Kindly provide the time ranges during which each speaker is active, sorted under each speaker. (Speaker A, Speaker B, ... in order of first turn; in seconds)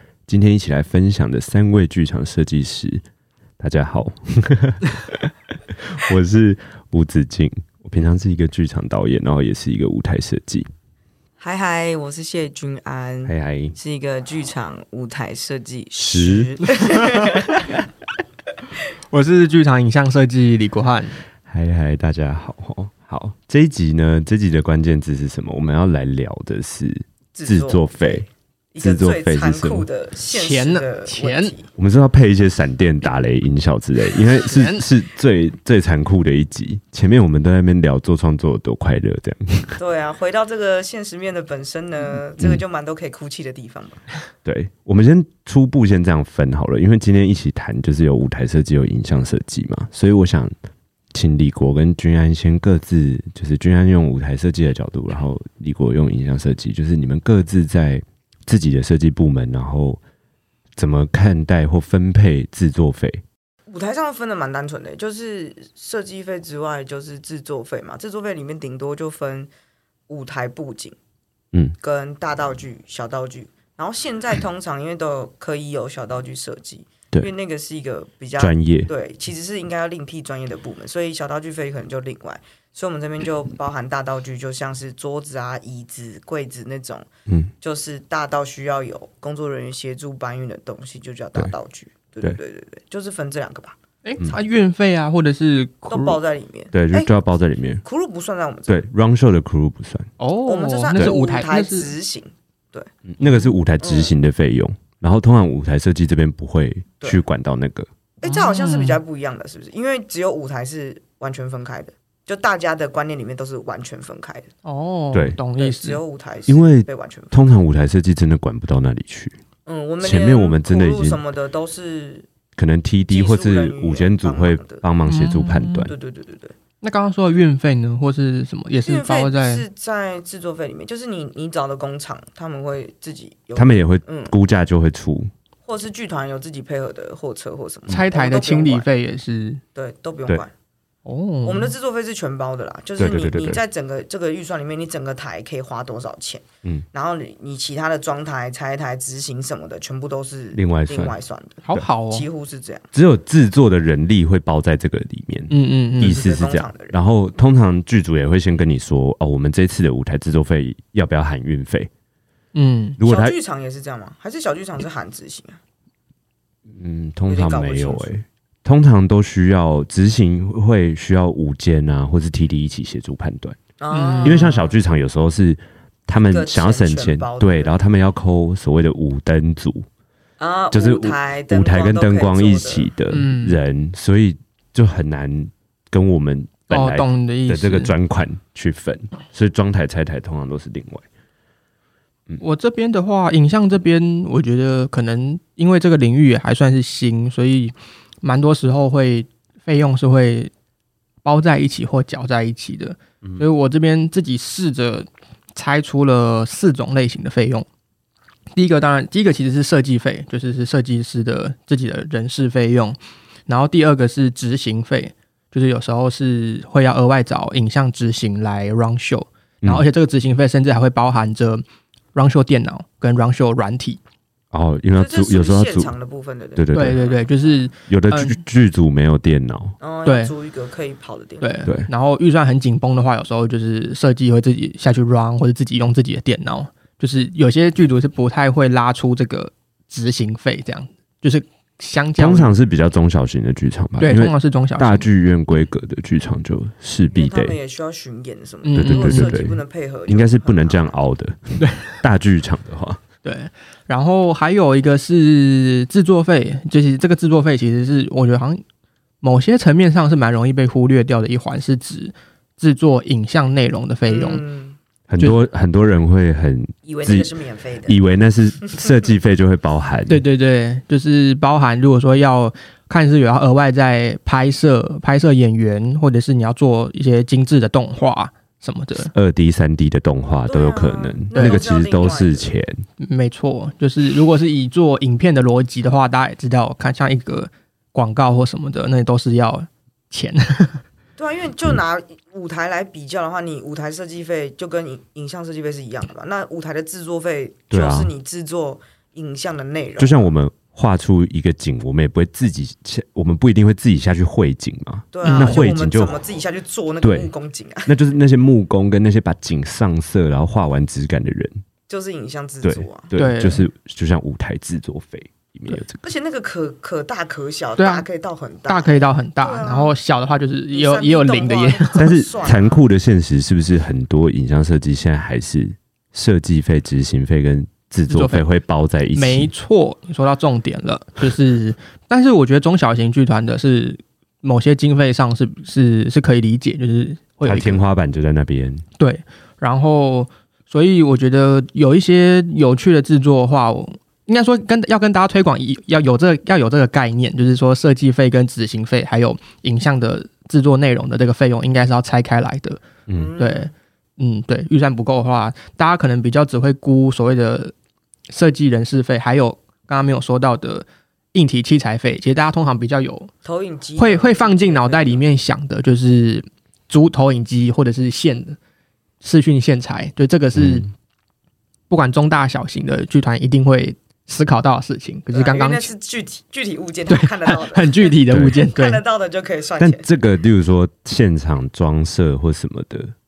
Speaker A: 0.3-3.0, 3.6-10.7, 13.2-13.8, 16.0-16.6, 21.5-28.3, 28.8-29.9, 31.8-39.8, 44.5-50.5, 51.1-60.0, 60.8-63.2, 78.4-78.9, 87.3-87.5, 96.7-97.8, 98.7-100.1, 103.1-107.9, 115.1-115.4, 116.5-119.4, 120.0-121.2, 122.6-125.9, 133.6-135.3, 143.0-143.6, 150.5-151.2, 152.9-161.9, 163.0-163.4, 166.7-173.6, 174.2-179.9, 180.7-191.1, 224.5-225.9, 226.6-227.0, 227.9-229.8, 242.2-247.6, 248.8-253.0, 265.1-267.3, 267.9-270.2, 279.0-282.9, 297.7-298.1, 300.0-306.3, 307.0-307.3, 307.9-311.6, 312.6-316.1, 322.0-329.5, 337.4-338.9, 370.6-370.9, 378.3-378.6, 379.8-383.1
Speaker B: 11.4-17.8, 27.4-31.7, 39.8-44.0, 63.7-69.5, 70.1-71.0, 71.8-87.1, 87.6-93.8, 95.9-97.1, 97.8-98.8, 100.4-102.9, 103.8-104.1, 108.2-114.5, 115.6-117.5, 119.7-122.3, 123.1-124.9, 125.8-126.5, 128.8-134.3, 135.7-138.9, 139.8-140.5, 141.4-152.8, 156.0-157.0, 163.0-165.6, 167.3-168.2, 173.8-174.8, 176.2-177.8, 180.4-183.0, 224.9-227.6, 229.8-231.6, 247.1-251.0, 264.1-264.8, 266.9-268.0, 280.5-282.5, 291.2-300.3, 305.1-307.9, 311.9-313.1, 316.0-320.0, 320.7-322.8, 353.1-353.7, 363.4-365.3, 375.3-380.1
Speaker C: 19.1-21.2, 30.3-31.5, 34.4-34.9, 94.0-96.2, 100.2-101.9, 103.2-103.5, 108.3-109.0, 114.7-116.0, 125.0-125.9, 126.8-129.7, 137.9-139.6, 141.1-141.7, 151.6-152.3, 155.5-156.2, 162.5-163.0, 173.9-174.5, 183.1-183.6, 186.7-187.9, 192.4-200.5, 201.2-207.7, 208.5-224.0, 226.7-228.4, 230.1-230.3, 231.4-242.5, 244.0-245.1, 248.7-249.3, 253.2-258.6, 259.2-264.4, 270.1-279.1, 283.0-290.8, 305.2-305.7, 313.2-313.7, 317.8-318.1, 318.7-322.2, 328.1-328.5, 329.1-337.8, 339.0-352.8, 353.4-357.7, 358.3-363.3, 364.0-368.6, 369.2-370.9, 371.9-375.9, 377.1-379.0